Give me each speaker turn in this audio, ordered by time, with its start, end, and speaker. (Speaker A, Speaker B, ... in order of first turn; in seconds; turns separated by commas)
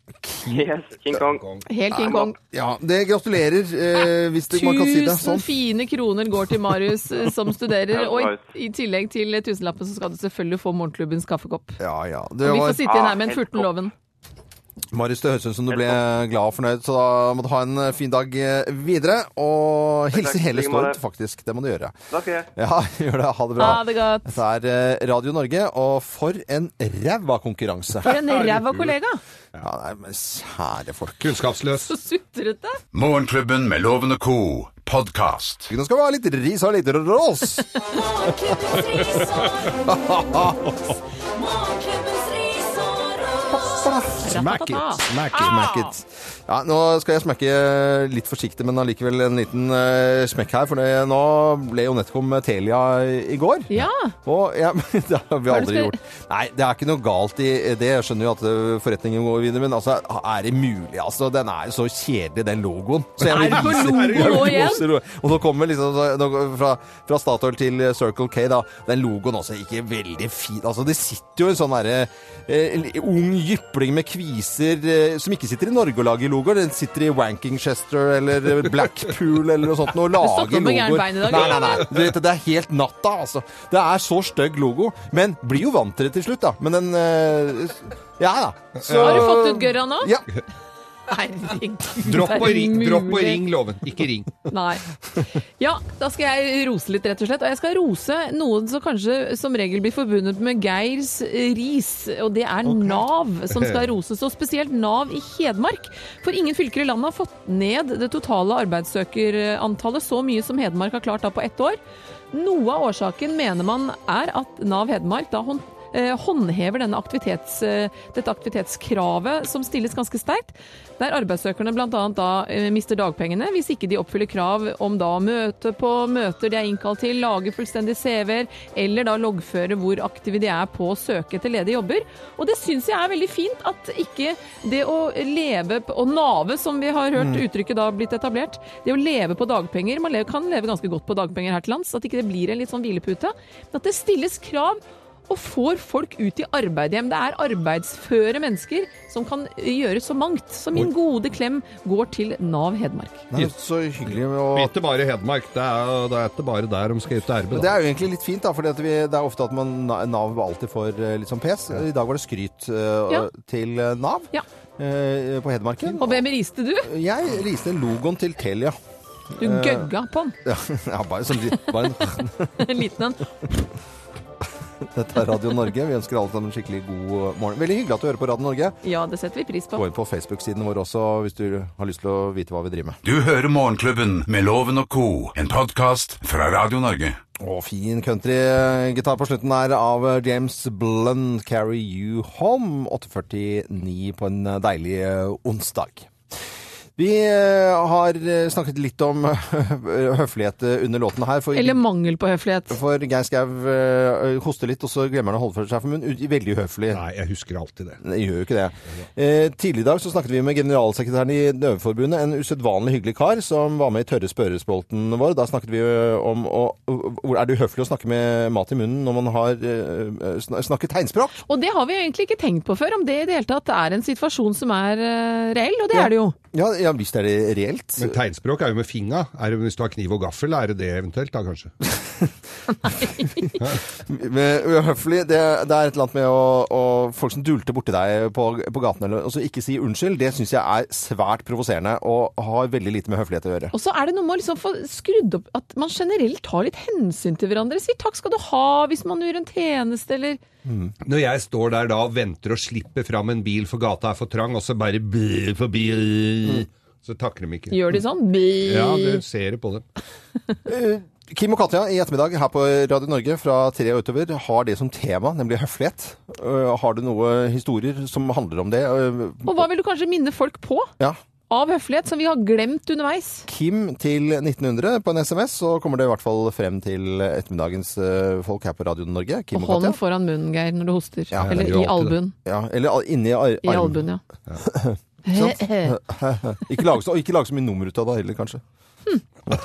Speaker A: 0.2-0.6, Speaker B: 0.4-1.4, Speaker C: 1.3-1.6, Speaker D: 1.6-2.4, Speaker A: 1.9-5.5, Speaker D: 4.5-11.8, Speaker B: 7.9-8.4, Speaker A: 11.8-12.9, Speaker D: 12.4-13.9, Speaker B: 12.8-13.7, Speaker A: 14.9-21.9, Speaker B: 20.1-21.0, Speaker B: 22.1-22.5, Speaker A: 22.6-28.2, Speaker D: 23.6-24.3, Speaker D: 28.0-29.2, Speaker C: 28.1-28.9, Speaker A: 29.6-31.4, Speaker C: 31.2-31.9, Speaker D: 31.9-32.8, Speaker E: 32.9-35.7, Speaker A: 35.7-37.7, Speaker F: 37.7-39.9, Speaker A: 40.1-40.5, Speaker F: 41.3-43.8, Speaker A: 43.6-44.2, Speaker D: 44.2-45.9, Speaker C: 44.2-45.6, Speaker A: 45.3-90.2, Speaker D: 53.7-54.1, Speaker D: 55.5-56.0, Speaker C: 63.2-64.8, Speaker D: 63.3-64.8, Speaker D: 80.1-81.8, Speaker C: 81.3-82.1, Speaker C: 88.8-89.4, Speaker D: 88.9-90.1, Speaker D: 91.1-93.4, Speaker C: 92.0-94.4, Speaker D: 94.5-94.8, Speaker D: 95.4-111.8, Speaker C: 103.5-103.9, Speaker D: 112.3-153.2, Speaker A: 137.2-137.4, Speaker A: 153.3-154.7, Speaker C: 154.1-157.7, Speaker A: 157.5-166.2, Speaker D: 165.9-166.9, Speaker A: 166.8-168.8, Speaker A: 169.4-169.9, Speaker D: 169.4-170.4, Speaker A: 170.4-172.7, Speaker D: 172.6-173.3, Speaker A: 174.8-178.8, Speaker D: 178.8-179.8, Speaker A: 179.7-183.0, Speaker E: 183.0-187.2, Speaker A: 187.4-196.1, Speaker A: 196.9-201.8, Speaker D: 201.5-202.8, Speaker A: 202.7-207.0, Speaker C: 206.9-208.0, Speaker A: 208.0-221.4, Speaker D: 221.4-226.3, Speaker A: 225.9-228.2, Speaker C: 228.0-231.7, Speaker D: 232.8-233.5, Speaker A: 233.4-243.7, Speaker D: 243.7-250.4, Speaker A: 250.6-250.9, Speaker C: 251.0-257.9, Speaker D: 257.7-259.2, Speaker C: 258.6-259.8, Speaker A: 260.6-269.7, Speaker D: 269.4-270.9, Speaker D: 271.5-273.5, Speaker A: 273.5-280.0, Speaker D: 279.5-282.3, Speaker A: 281.3-281.7, Speaker C: 281.4-282.1, Speaker A: 282.4-284.0, Speaker D: 283.6-284.2, Speaker A: 284.6-288.6, Speaker D: 285.2-285.9